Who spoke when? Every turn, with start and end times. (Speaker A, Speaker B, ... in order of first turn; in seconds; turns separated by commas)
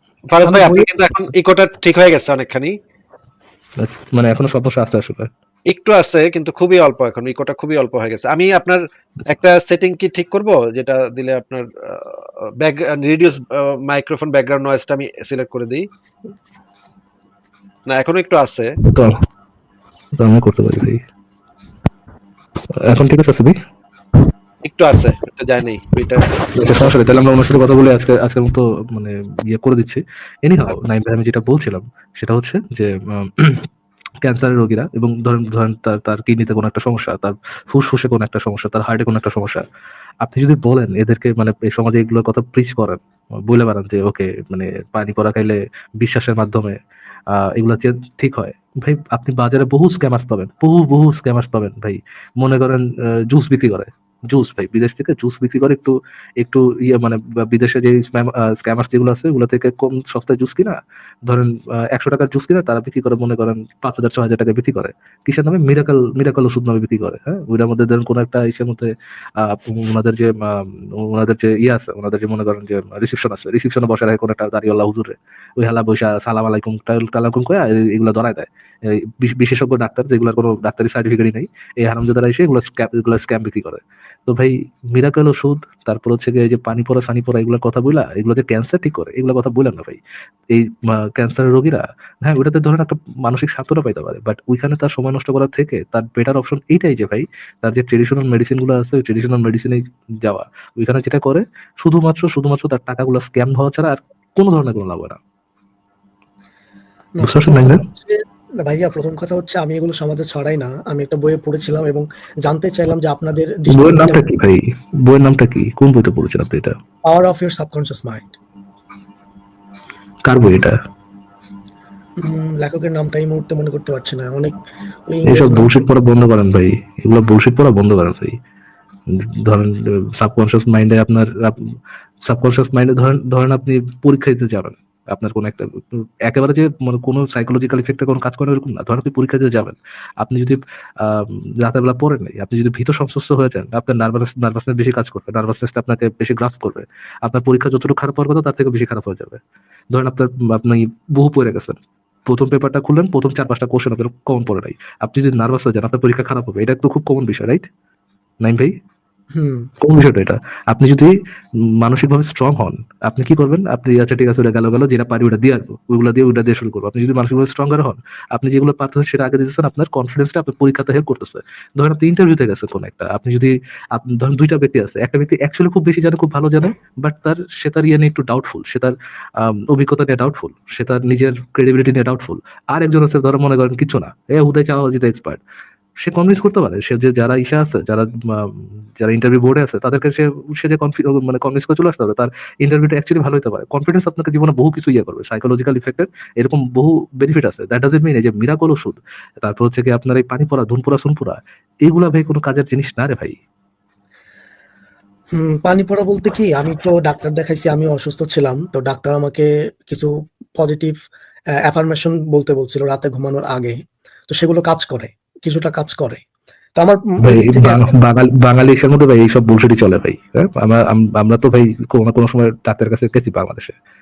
Speaker A: 0.3-2.7, Speaker B: 0.4-0.9, Speaker C: 3.8-5.3, Speaker A: 5.7-15.8, Speaker A: 17.9-18.7, Speaker C: 18.8-19.1, Speaker C: 20.2-21.0, Speaker C: 22.8-23.5, Speaker A: 24.6-26.2, Speaker C: 26.5-33.7, Speaker C: 34.2-39.6, Speaker C: 40.2-46.8, Speaker C: 47.3-90.0, Speaker C: 90.5-105.2, Speaker B: 107.2-114.2, Speaker C: 107.2-107.8, Speaker C: 113.7-116.7, Speaker B: 117.1-118.3, Speaker C: 120.3-120.8, Speaker B: 122.2-126.0, Speaker C: 125.3-128.3, Speaker C: 129.1-131.6, Speaker C: 132.2-149.4, Speaker C: 149.9-157.7, Speaker C: 158.4-158.7, Speaker B: 159.3-159.7, Speaker C: 159.8-185.4, Speaker C: 186.0-203.4, Speaker B: 205.3-211.0, Speaker B: 211.7-213.8, Speaker B: 214.3-216.2, Speaker B: 216.8-217.9, Speaker C: 217.2-223.7